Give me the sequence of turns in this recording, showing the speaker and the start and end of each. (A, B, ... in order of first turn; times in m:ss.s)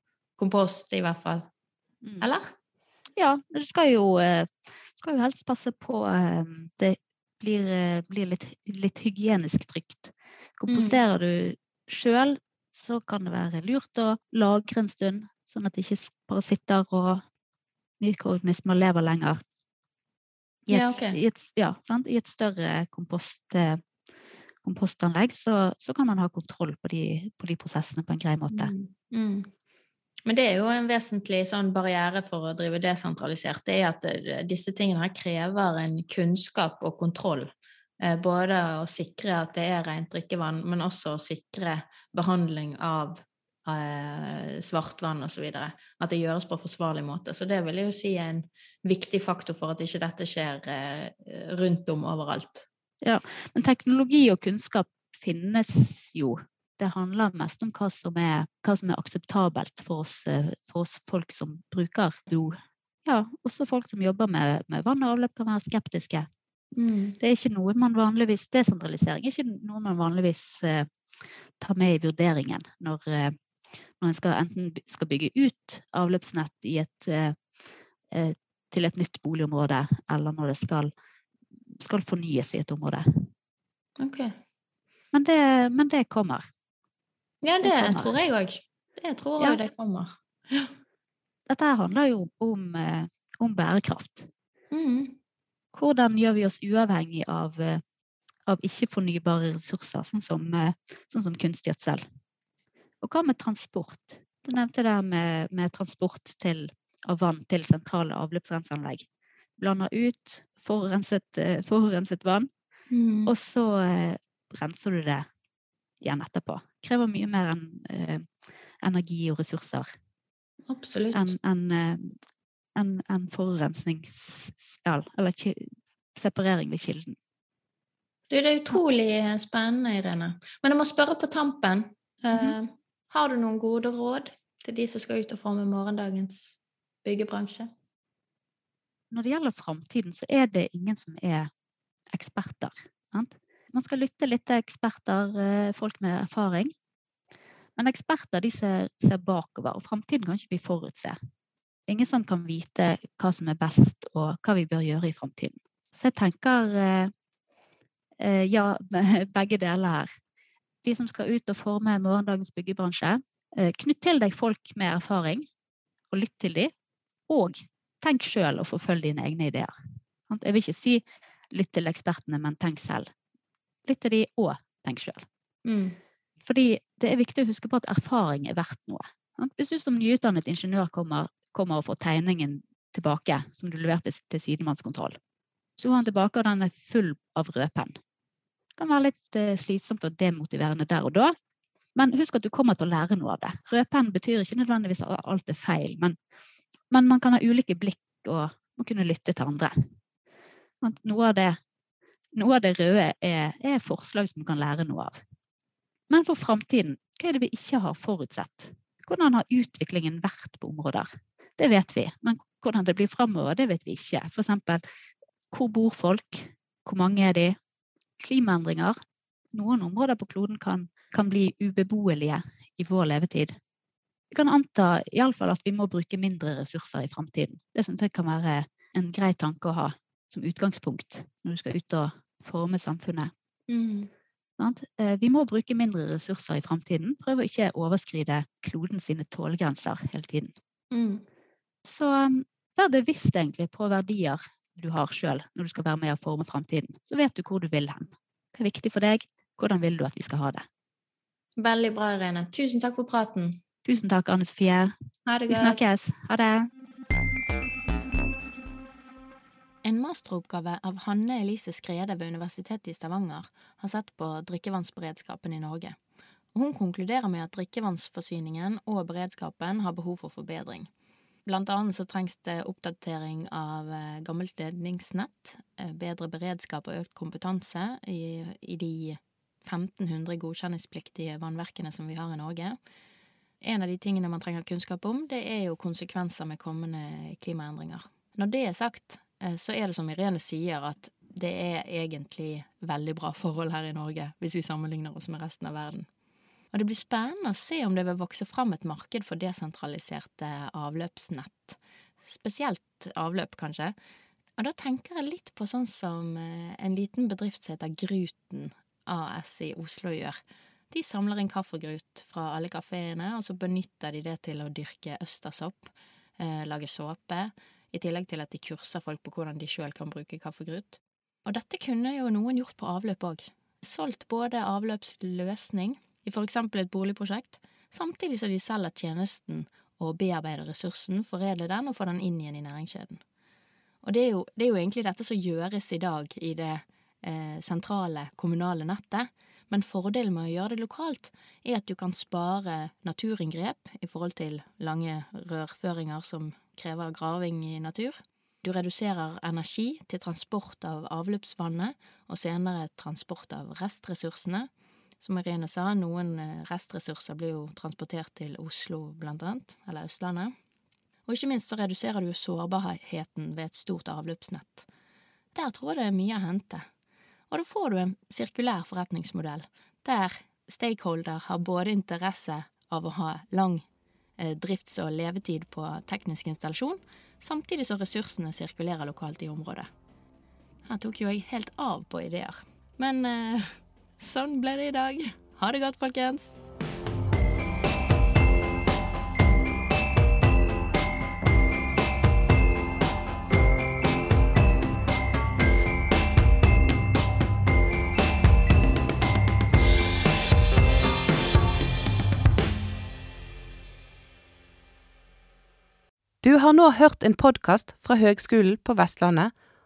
0:00.4-0:01.5 A
0:02.0-0:02.3 B
0:02.2-0:02.5 A
0:03.2-0:17.2 B
0:10.7-0:11.0 A
0:18.0-0:19.4 B
0:20.7-0:23.8 B
0:20.7-0:21.2 A
0:24.6-0:28.7 B
0:28.5-0:29.5 A
0:30.2-0:52.6 A
0:53.0-1:06.3 B
1:06.8-1:07.2 A
1:07.2-1:13.4 B
1:14.0-1:17.4 B
1:18.1-1:20.9 B
1:21.8-1:23.3 B
1:24.0-1:24.4 A
1:25.1-1:26.4 B
1:27.4-1:30.7 A
1:27.6-1:28.2 B
1:31.5-1:34.3 B
1:34.7-1:35.2 A
1:35.7-1:37.8 B
1:38.5-1:42.0 B
1:43.0-1:49.1 B
1:49.6-1:52.5 B
1:52.9-1:53.3 A
1:53.3-1:55.2 B
1:56.0-1:58.3 B
1:58.8-1:59.9 B
2:00.7-2:01.4 A
2:01.1-2:02.2 B
2:02.8-2:07.2 B
2:08.3-2:17.7 A
2:19.1-2:21.5 B
2:22.1-2:26.7 B
2:27.8-2:31.2 B
2:31.9-2:37.1 B
2:38.2-2:40.1 B
2:40.8-2:45.5 B
2:46.1-2:46.7 B
2:47.3-2:49.7 B
2:50.3-2:53.1 B
2:53.9-2:55.3 B
2:55.6-2:56.0 A
2:56.4-3:05.2 B
3:05.8-3:07.9 B
3:08.8-3:11.3 B
3:12.0-3:16.2 B
3:16.9-3:19.7 B
3:20.8-3:21.6 B
3:22.4-3:25.2 B
3:26.1-3:34.8 B
3:35.5-3:37.6 B
3:38.2-3:39.0 B
3:39.5-3:43.6 B
3:44.3-3:53.3 B
3:53.7-3:54.1 A
3:54.6-4:00.5 B
4:00.9-4:01.2 A
4:01.8-4:10.6 B
4:11.6-4:13.6 A
4:13.8-4:14.9 B
4:15.3-4:15.8 A
4:15.5-4:16.7 B
4:19.8-4:26.0 A
4:26.5-4:30.9 A
4:31.4-4:42.8 A
4:43.6-4:56.1 A
4:56.7-5:04.0 A
5:04.6-5:10.4 A
5:10.9-5:33.2 A
5:34.0-5:54.7 A
5:55.2-6:00.5 A
6:01.3-6:04.9 A
6:05.5-6:06.8 A
6:07.5-6:13.9 A
6:14.4-6:19.9 A
6:20.9-6:26.6 A
6:46.4-6:49.6 C